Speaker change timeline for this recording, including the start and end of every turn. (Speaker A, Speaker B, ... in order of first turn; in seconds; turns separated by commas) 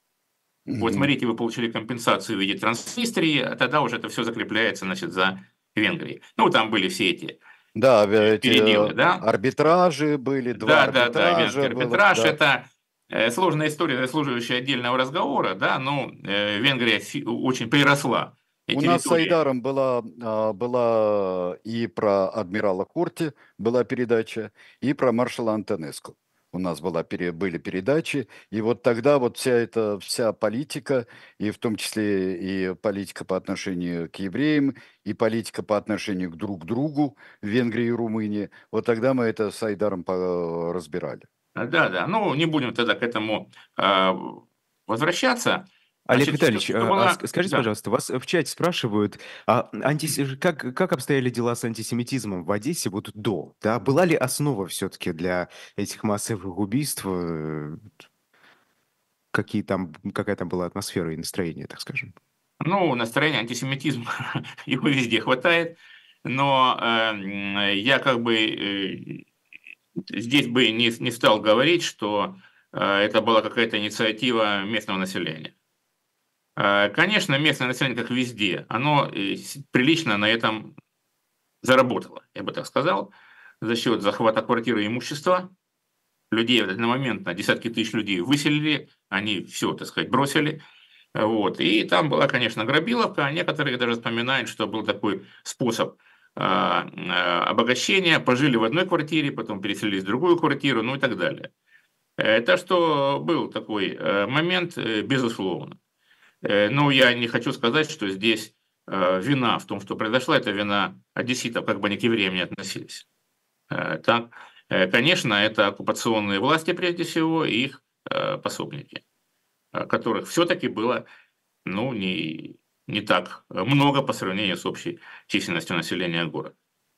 Speaker A: 0.7-1.1, Speaker B: 0.8-7.4, Speaker A: 7.8-12.4, Speaker B: 8.2-9.2, Speaker B: 10.6-19.4, Speaker A: 18.7-41.2, Speaker B: 41.6-47.7, Speaker C: 46.1-57.9, Speaker C: 59.3-62.2, Speaker B: 62.6-69.2, Speaker B: 70.1-75.5, Speaker B: 76.6-80.8, Speaker B: 81.6-85.5, Speaker B: 86.3-90.6, Speaker B: 91.2-101.5, Speaker B: 102.2-105.8, Speaker B: 106.4-113.0, Speaker B: 113.7-119.0, Speaker B: 119.7-121.0, Speaker B: 121.7-126.5